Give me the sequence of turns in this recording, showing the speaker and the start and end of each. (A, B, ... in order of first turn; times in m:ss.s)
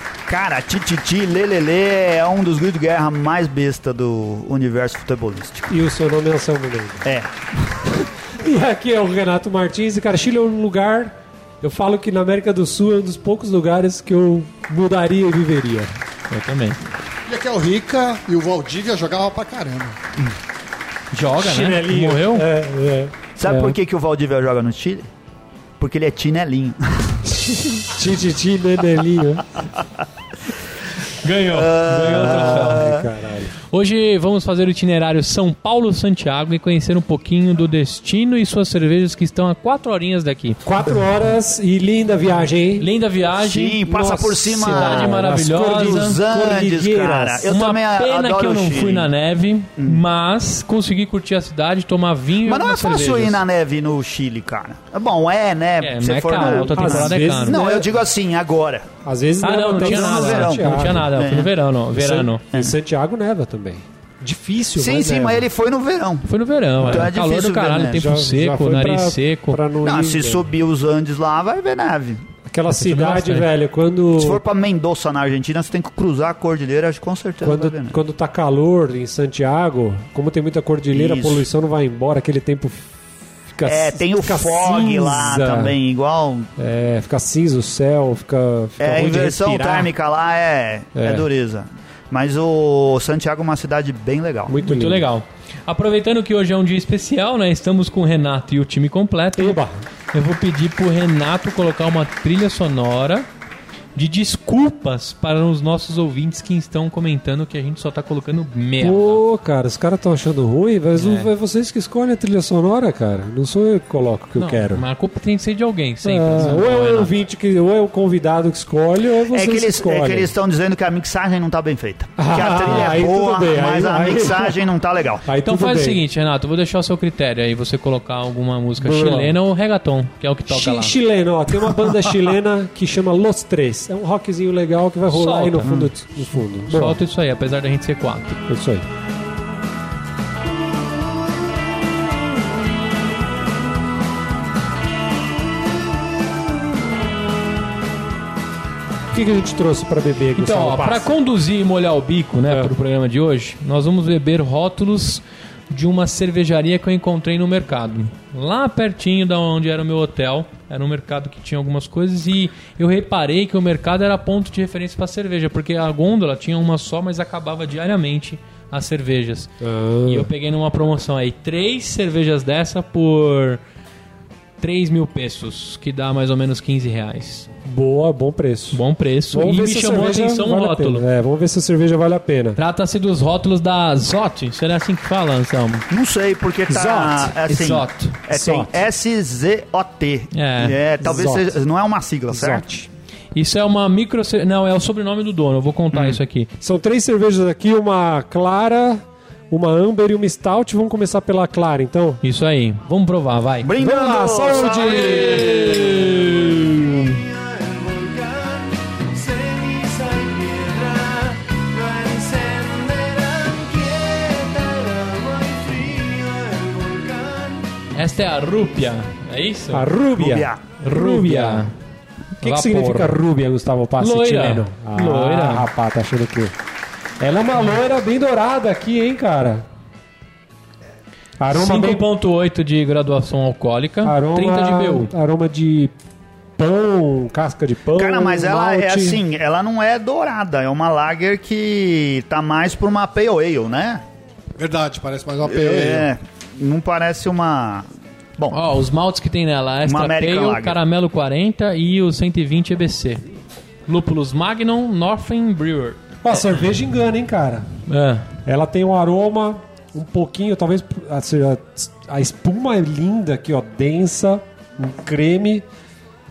0:00.3-0:05.7 A
0:05.7-0:07.0 B
0:07.0-0:08.0 A
0:08.4-0:15.9 B
0:16.3-0:16.8 C
0:17.2-0:20.0 D
0:21.1-0:22.4 C
0:21.4-0:23.8 B
0:23.4-0:25.1 A
0:25.8-0:27.3 A
0:27.4-0:29.5 B
0:31.1-0:32.9 C
0:31.5-0:33.1 A
0:32.0-0:33.6 B
0:33.7-0:40.6 C
0:40.6-0:42.9 B
0:42.8-0:43.8 C
0:43.4-0:49.1 A
0:43.8-0:47.5 B
0:44.6-0:46.2 C
0:47.5-0:53.4 C
0:49.8-0:50.0 A
0:52.4-0:58.9 A
0:55.8-0:57.6 C
0:56.7-0:57.9 B
0:59.0-1:01.1 B
0:59.4-1:02.4 C
0:59.7-1:01.5 A
1:01.9-1:05.4 B
1:04.8-1:06.3 A
1:06.2-1:09.6 C
1:06.8-1:08.0 A
1:07.9-1:10.5 B
1:09.8-1:12.2 A
1:12.5-1:14.4 B
1:12.8-1:13.5 C
1:14.1-1:18.0 A
1:17.4-1:22.9 B
1:20.9-1:21.4 A
1:23.5-1:25.8 B
1:23.6-1:26.5 A
1:26.6-1:29.9 B
1:28.8-1:34.5 A
1:31.0-1:31.3 B
1:34.5-1:35.1 B
1:34.6-1:39.6 C
1:39.4-1:39.8 B
1:40.1-1:43.3 C
1:43.9-1:49.2 C
1:48.8-1:54.8 B
1:51.0-1:51.3 C
1:54.4-1:57.1 C
1:56.0-2:00.3 B
1:59.3-2:05.2 A
2:02.2-2:04.6 B
2:05.2-2:06.0 B
2:05.4-2:10.9 C
2:08.8-2:09.3 B
2:10.5-2:17.0 B
2:15.1-2:15.8 C
2:16.7-2:18.4 C
2:18.5-2:18.8 B
2:29.1-2:31.1 B
2:30.3-2:49.5 C
2:49.6-2:50.3 B
2:50.0-2:53.6 C
2:54.6-2:57.5 C
2:57.6-3:02.6 B
2:58.7-3:01.0 C
3:02.6-3:05.8 C
3:05.9-3:12.7 A
3:06.7-3:07.4 B
3:07.4-3:08.2 C
3:08.3-3:08.8 B
3:10.3-3:10.8 C
3:11.0-3:11.5 B
3:12.3-3:12.9 B
3:13.3-3:16.5 C
3:15.9-3:16.2 A
3:16.6-3:22.2 B
3:22.2-3:23.7 C
3:23.6-3:26.2 A
3:23.8-3:26.4 B
3:24.7-3:37.7 E
3:37.9-3:39.9 C
3:39.7-3:41.7 B
3:40.2-3:40.6 A
3:40.8-3:41.7 C
3:42.4-3:43.2 C
3:42.4-3:46.5 B
3:44.0-3:45.6 C
3:47.2-3:49.7 B
3:51.4-3:52.0 B
3:51.5-3:55.1 C
3:54.0-3:55.9 B
3:56.6-3:59.2 B
3:58.0-4:04.0 A
4:04.6-4:06.1 D
4:05.4-4:08.6 A
4:08.5-4:13.2 C
4:09.8-4:10.8 A
4:13.9-4:16.0 C
4:16.2-4:17.7 B
4:17.9-4:18.3 C
4:18.4-4:25.6 B